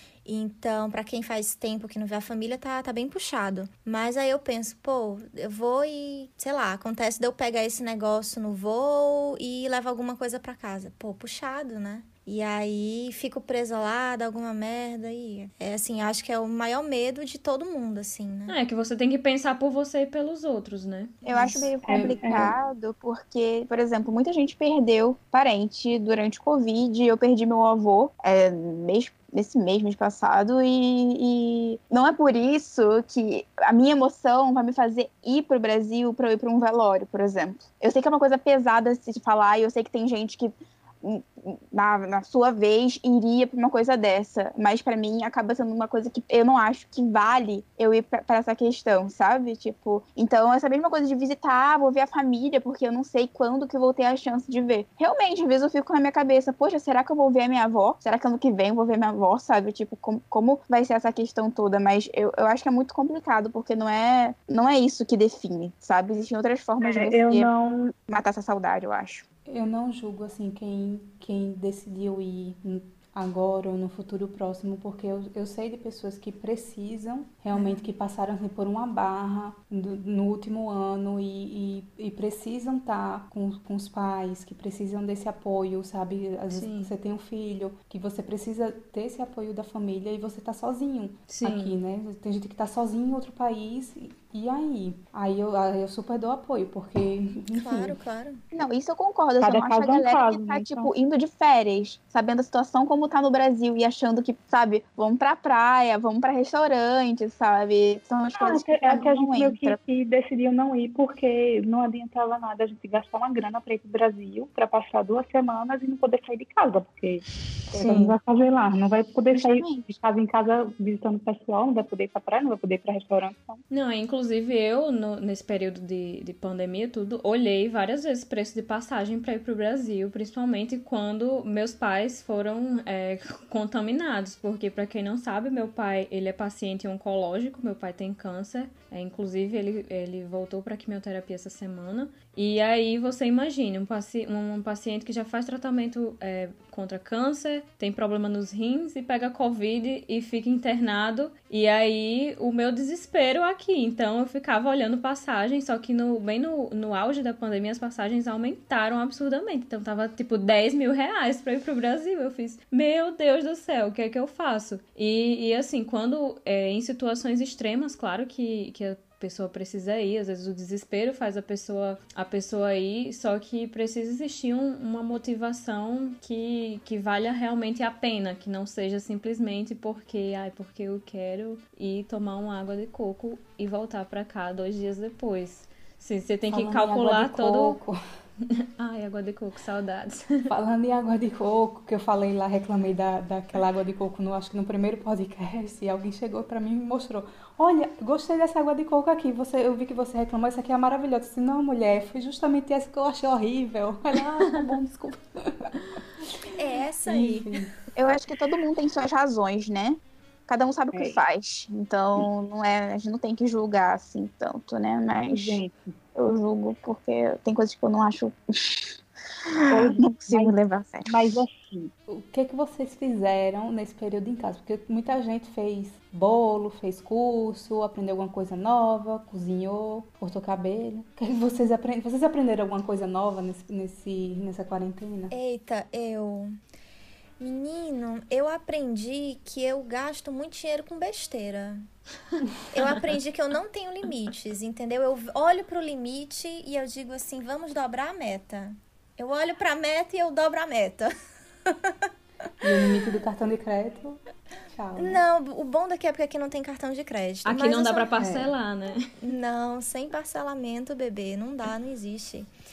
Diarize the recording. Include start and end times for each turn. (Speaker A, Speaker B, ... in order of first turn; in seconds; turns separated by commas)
Speaker A: 0.2-18.6, Speaker B: 18.5-21.1, Speaker C: 21.2-67.5, Speaker A: 21.2-21.7, Speaker D: 21.9-22.5, Speaker E: 21.9-22.4, Speaker D: 66.8-67.9, Speaker C: 68.1-69.2, Speaker E: 69.5-98.0, Speaker B: 86.5-86.9, Speaker B: 91.3-91.7, Speaker A: 97.5-98.4, Speaker C: 98.5-109.8, Speaker D: 99.4-100.9, Speaker D: 108.3-123.6, Speaker B: 117.7-118.1, Speaker C: 119.3-119.9, Speaker B: 123.7-187.8, Speaker E: 186.5-188.0, Speaker B: 188.5-190.5, Speaker E: 190.5-205.8, Speaker A: 206.6-207.5, Speaker E: 207.1-207.8, Speaker C: 207.9-215.6, Speaker D: 210.9-211.2, Speaker D: 215.2-215.8, Speaker C: 216.2-218.9, Speaker C: 219.5-221.1, Speaker D: 219.7-220.5, Speaker D: 221.1-221.9, Speaker E: 222.1-235.3, Speaker A: 235.3-236.6, Speaker A: 237.4-241.9, Speaker A: 242.7-251.1, Speaker A: 251.6-252.1, Speaker E: 252.6-254.2, Speaker E: 254.7-255.2, Speaker A: 254.9-258.1, Speaker B: 257.4-259.1, Speaker E: 258.2-258.5, Speaker A: 259.2-262.5